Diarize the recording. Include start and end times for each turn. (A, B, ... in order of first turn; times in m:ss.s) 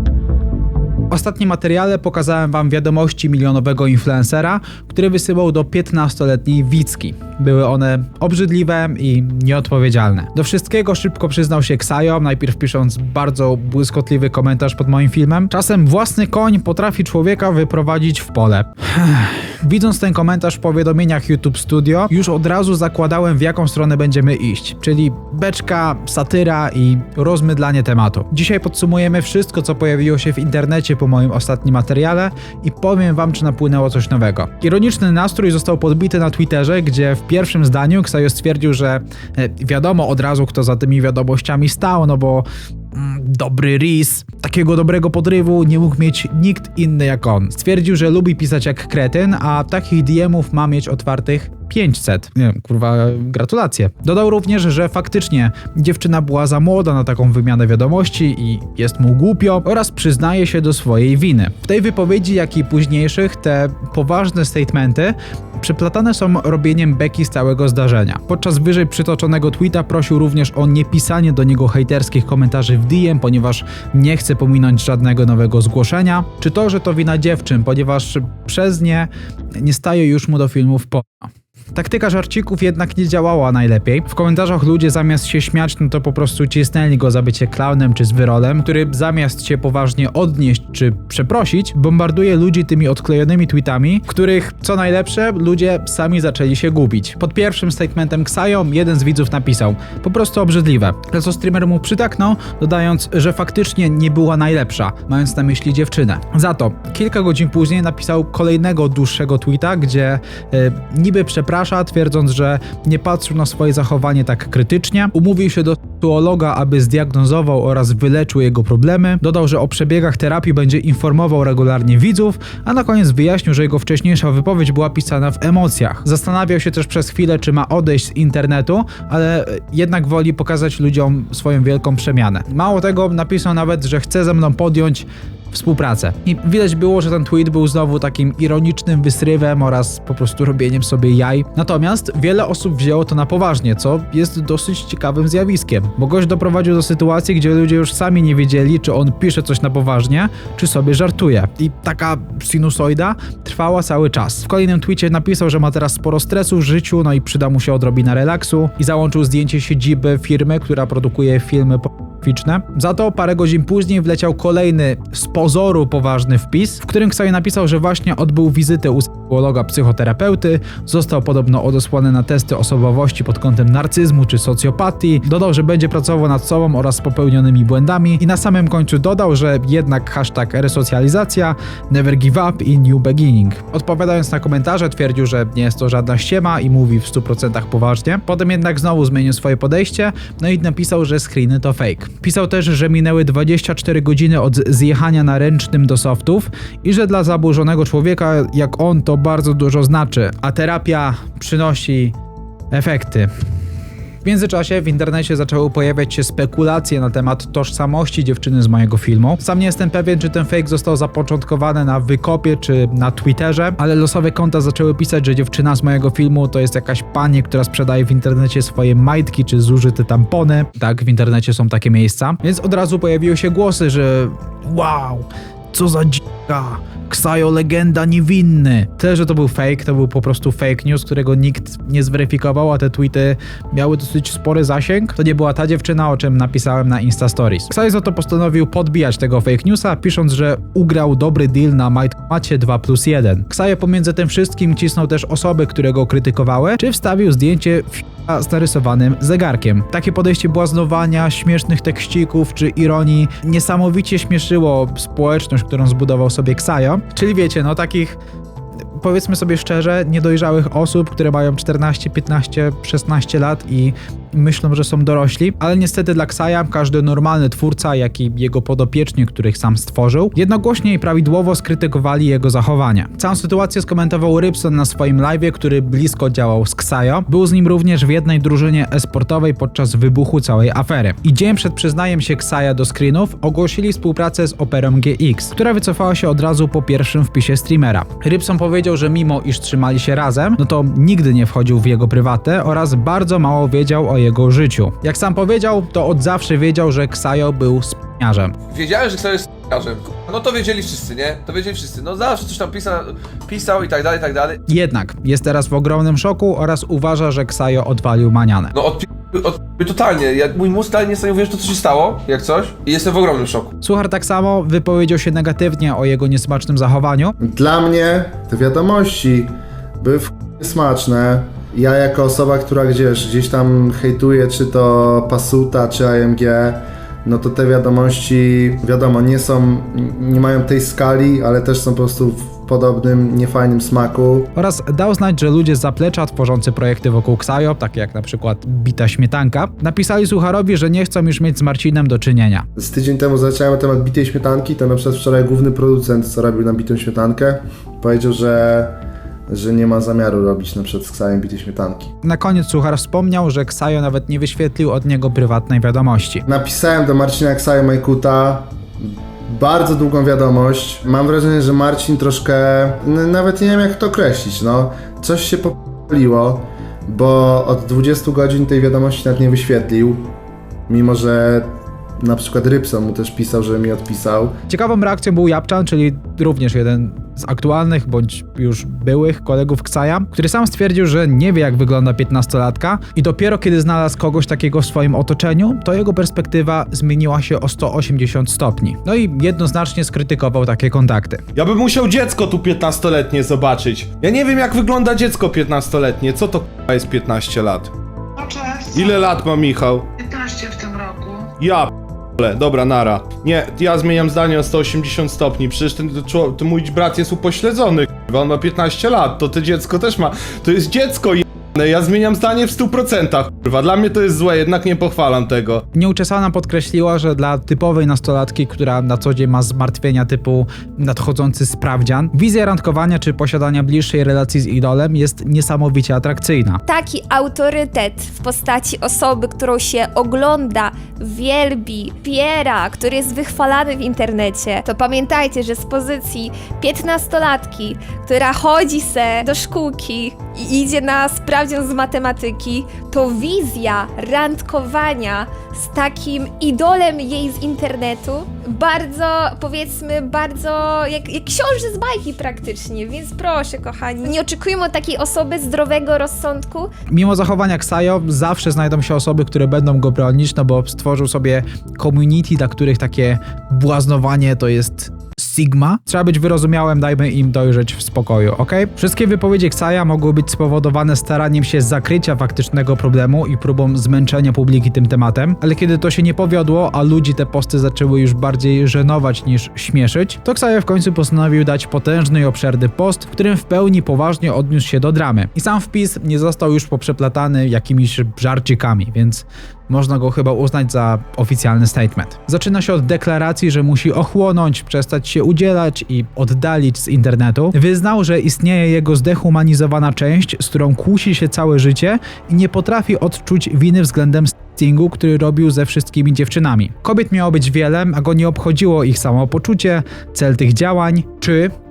0:01.1-3:22.2 A
3:22.7-3:23.3 A
3:24.2-4:18.2 A
4:19.0-4:58.5 A
4:58.7-5:04.6 B
5:04.7-5:08.7 A
5:08.7-5:13.7 B
5:13.8-5:17.3 A
5:17.4-5:34.5 C
5:34.6-5:42.7 A
5:42.8-5:52.1 C
5:52.2-5:56.4 A
5:56.5-6:10.3 C
6:10.9-6:14.6 C
6:14.7-6:31.4 A
6:31.6-6:37.9 D
6:38.4-6:39.2 E
6:38.9-6:40.1 D
6:40.2-6:41.5 E
6:41.6-6:55.8 D
6:55.9-7:06.8 A
7:06.9-7:36.9 F
7:37.1-8:31.7 A